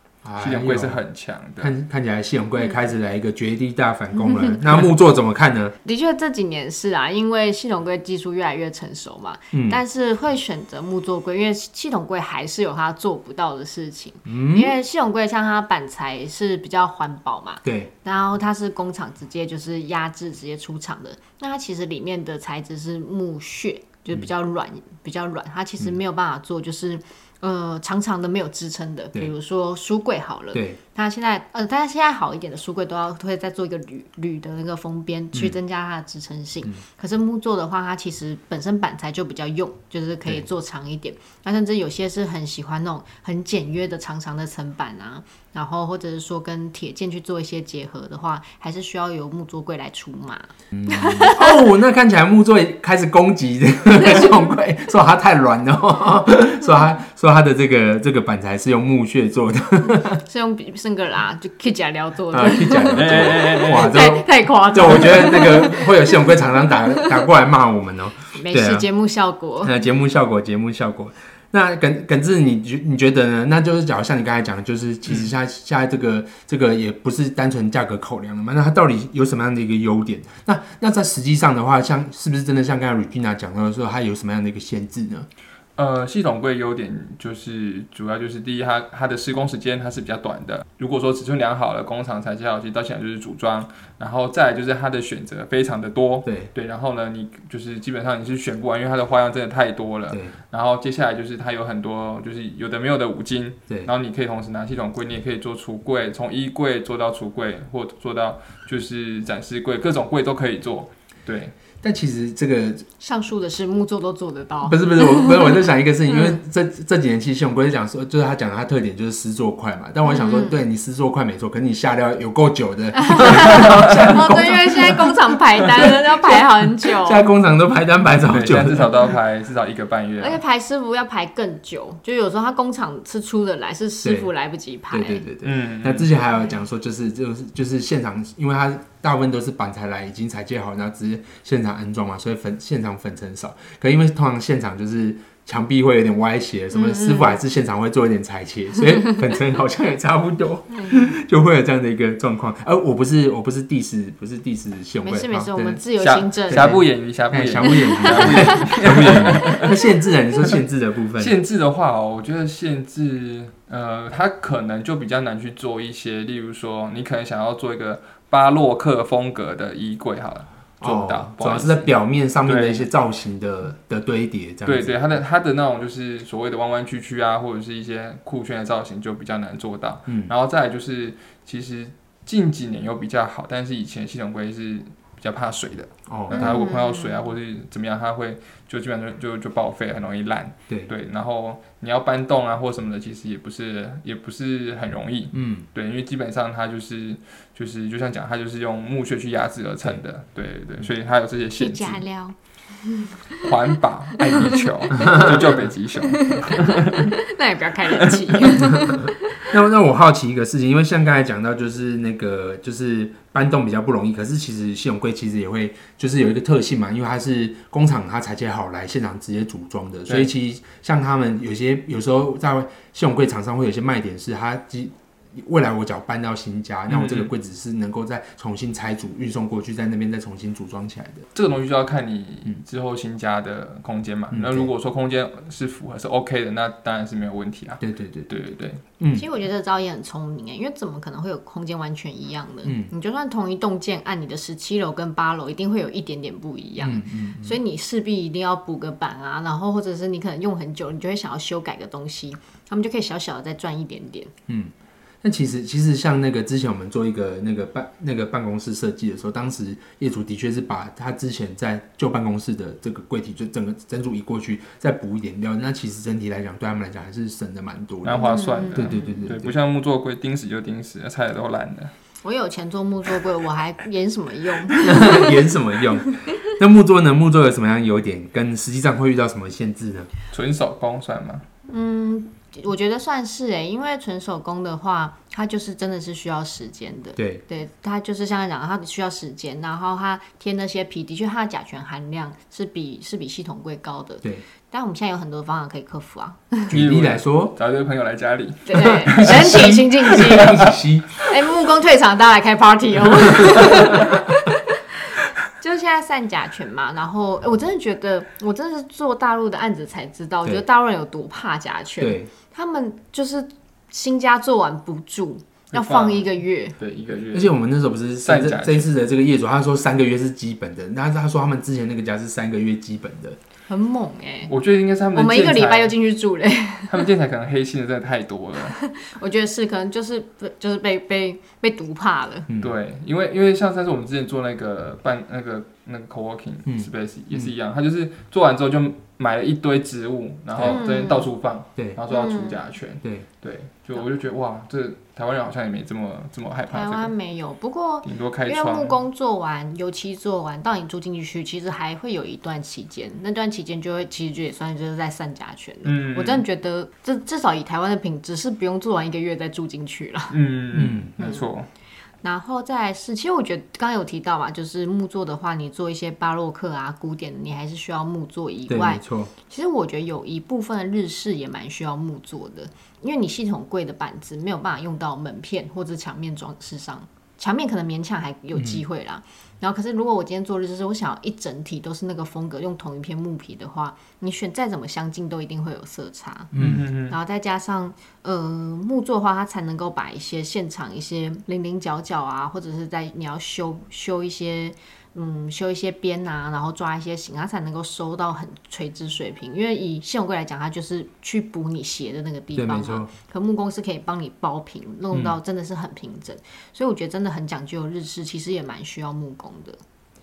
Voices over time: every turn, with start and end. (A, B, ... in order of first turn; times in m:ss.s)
0:00.2-0:01.0 A
0:00.4-0:01.7 B
0:01.6-0:05.7 A
0:04.1-0:04.6 C
0:05.8-0:51.6 C
0:09.5-0:09.8 A
0:14.2-0:14.8 A
0:17.6-0:17.9 A
0:30.5-0:30.8 A
0:50.7-1:00.2 A
1:00.0-1:07.3 C
1:02.3-1:08.9 A
1:02.9-1:04.0 B
1:08.3-1:09.7 C
1:09.6-1:25.3 A
1:25.8-1:51.5 B
1:36.2-1:36.5 A
1:40.1-1:40.3 A
1:51.8-1:52.9 A
1:53.0-1:56.4 C
1:54.6-2:08.9 A
2:00.0-2:00.6 C
2:02.9-2:07.3 C
2:08.2-2:10.4 B
2:10.2-2:15.3 C
2:14.0-2:14.3 A
2:14.9-2:41.4 A
2:15.4-2:16.1 B
2:26.7-2:27.4 C
2:35.0-2:36.8 C
2:35.9-2:39.6 B
2:37.6-2:38.8 C
2:41.2-2:51.9 B
2:50.8-2:55.0 A
2:52.4-2:52.9 B
2:54.6-3:22.0 B
3:00.1-3:00.3 A
3:06.1-3:06.6 A
3:06.3-3:07.3 C
3:15.3-3:15.7 A
3:21.6-3:23.5 C
3:23.4-3:27.1 B
3:24.1-3:25.5 C
3:25.0-3:25.7 A
3:26.0-3:29.6 C
3:28.1-3:28.6 B
3:28.7-3:51.2 A
3:46.9-3:47.3 B
3:51.3-3:58.8 B
3:54.3-3:54.7 A
3:57.8-3:58.3 A
3:59.0-3:59.2 A
3:59.1-4:14.3 C
4:02.6-4:02.9 A
4:06.8-4:07.6 A
4:14.5-4:29.5 A
4:28.0-4:31.9 B
4:28.2-4:29.2 C
4:32.2-4:35.4 C
4:34.8-4:40.1 A
4:40.3-4:41.4 B
4:41.7-4:56.7 C
4:47.2-4:47.4 A
4:56.7-4:57.6 A
4:56.7-4:59.5 B
4:58.6-5:00.6 C
4:58.8-5:01.4 A
5:00.2-5:00.6 B
5:01.2-5:04.6 C
5:03.2-5:04.4 A
5:05.1-5:16.8 C
5:12.0-5:12.3 A
5:15.7-5:17.5 B
5:17.3-5:23.4 A
5:18.2-5:18.9 B
5:23.7-5:24.5 C
5:24.4-5:26.0 B
5:25.1-5:27.1 C
5:26.9-5:28.8 B
5:28.7-5:32.5 C
5:32.5-5:32.7 A
5:32.6-5:47.1 B
5:36.6-5:37.5 A
5:40.6-5:40.8 A
5:40.6-5:41.3 C
5:41.8-5:42.0 A
5:42.1-5:42.6 C
5:46.7-6:01.5 C
5:48.0-5:49.0 B
5:55.8-5:56.4 B
6:00.3-6:01.7 B
6:00.8-6:01.2 A
6:02.2-6:26.5 C
6:08.7-6:09.3 A
6:18.5-6:18.8 A
6:26.5-6:26.8 A
6:26.6-6:27.2 B
6:27.1-6:49.8 C
6:42.5-6:43.1 A
6:45.1-6:45.4 A